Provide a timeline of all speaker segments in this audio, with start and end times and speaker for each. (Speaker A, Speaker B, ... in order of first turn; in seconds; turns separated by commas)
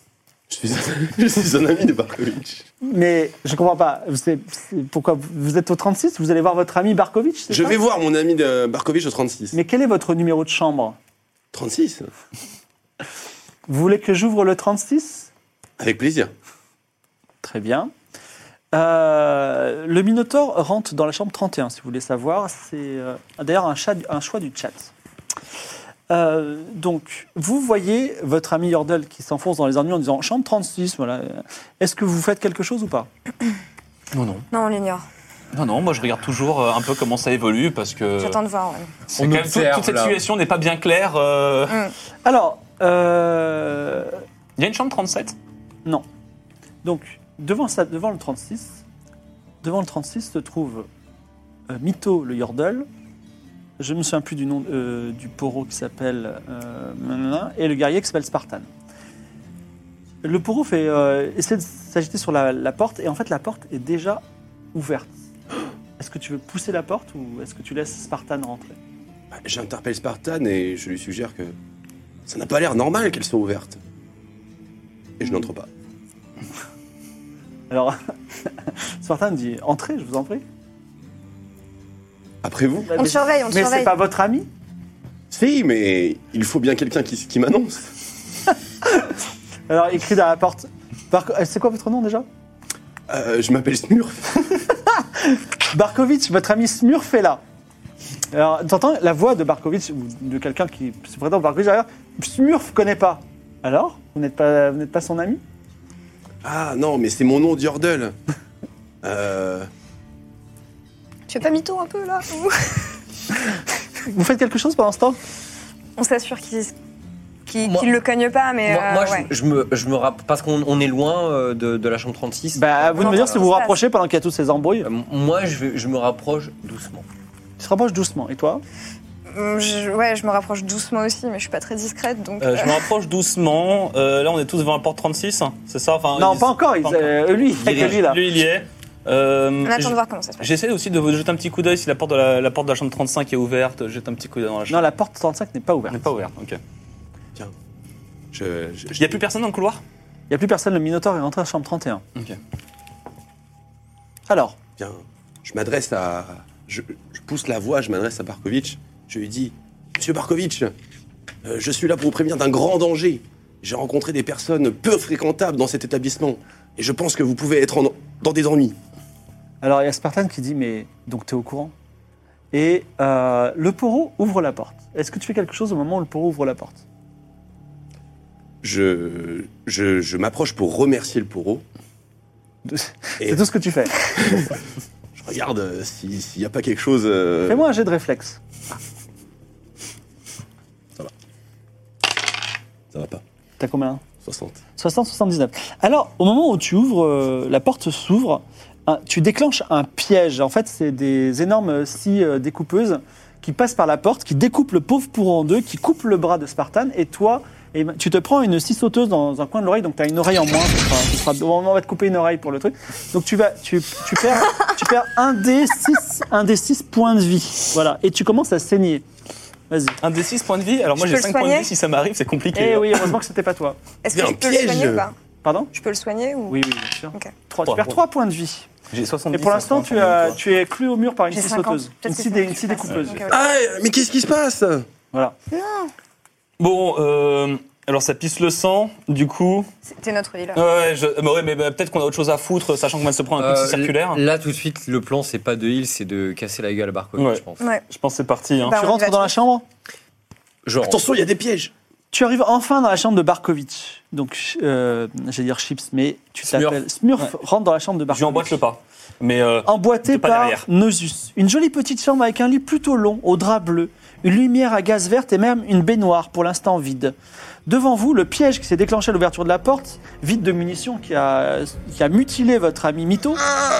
Speaker A: 0.5-2.6, Speaker B: 2.8-7.8, Speaker A: 7.5-9.6, Speaker B: 9.5-11.0, Speaker A: 11.5-12.1, Speaker B: 13.7-15.3, Speaker A: 15.8-16.3, Speaker B: 17.4-17.9, Speaker B: 18.7-24.9, Speaker B: 26.1-33.1, Speaker C: 34.1-34.5, Speaker D: 34.5-35.0, Speaker C: 35.5-38.4, Speaker D: 38.2-38.9, Speaker C: 39.1-41.8, Speaker E: 39.2-40.2, Speaker B: 42.2-44.2, Speaker C: 44.6-45.3, Speaker B: 46.8-48.8, Speaker B: 49.6-50.9, Speaker B: 51.7-52.9, Speaker B: 53.8-58.7, Speaker B: 60.2-64.2, Speaker B: 64.7-65.2, Speaker B: 66.0-68.8, Speaker A: 69.3-71.5, Speaker A: 72.2-73.8, Speaker A: 75.2-75.7, Speaker B: 77.7-78.0, Speaker B: 78.6-80.4, Speaker A: 82.4-83.0, Speaker B: 82.9-84.5, Speaker D: 83.0-83.9, Speaker A: 85.3-88.0, Speaker B: 88.8-89.1, Speaker B: 89.7-92.2, Speaker A: 93.1-94.6, Speaker B: 95.0-97.4, Speaker B: 98.3-105.4, Speaker A: 106.4-108.2, Speaker A: 109.0-109.7, Speaker D: 111.3-112.9, Speaker B: 114.0-115.2, Speaker D: 116.0-116.7, Speaker D: 117.5-119.3, Speaker E: 117.6-117.9, Speaker E: 118.6-123.4, Speaker B: 122.5-124.9, Speaker D: 122.9-123.8, Speaker E: 124.8-127.1, Speaker B: 127.6-128.6, Speaker D: 129.3-132.8, Speaker C: 132.4-144.9, Speaker B: 136.2-138.2, Speaker D: 139.6-140.5, Speaker B: 144.7-146.0, Speaker C: 145.9-146.6, Speaker A: 148.3-149.2, Speaker C: 149.0-149.8, Speaker B: 150.3-152.0, Speaker B: 154.3-154.6, Speaker A: 154.8-160.7, Speaker A: 161.4-168.8, Speaker B: 169.6-171.7, Speaker B: 172.5-176.8, Speaker A: 178.6-181.6, Speaker B: 182.7-184.0, Speaker A: 184.0-184.6, Speaker A: 185.2-187.6, Speaker B: 187.5-188.4, Speaker A: 192.9-193.2, Speaker B: 193.6-194.0, Speaker A: 194.2-194.6, Speaker B: 194.8-219.0, Speaker B: 219.7-220.0, Speaker C: 220.0-223.1, Speaker D: 221.0-221.7, Speaker B: 222.5-223.8, Speaker D: 224.0-225.1, Speaker A: 224.1-225.1, Speaker B: 225.4-225.7, Speaker D: 225.7-226.6, Speaker B: 226.5-228.7, Speaker C: 227.7-227.9, Speaker C: 228.9-230.4, Speaker B: 229.3-233.2, Speaker D: 231.3-233.5, Speaker A: 233.3-234.9, Speaker D: 235.5-235.9, Speaker C: 236.6-239.7, Speaker D: 239.9-240.6, Speaker C: 240.5-244.2, Speaker E: 243.4-247.6, Speaker C: 247.2-248.8, Speaker D: 248.6-249.3, Speaker B: 248.7-249.6, Speaker E: 250.6-251.0, Speaker A: 250.8-251.7, Speaker B: 252.1-258.6, Speaker E: 256.5-256.8, Speaker C: 258.1-260.6, Speaker B: 259.6-267.1, Speaker B: 267.7-273.4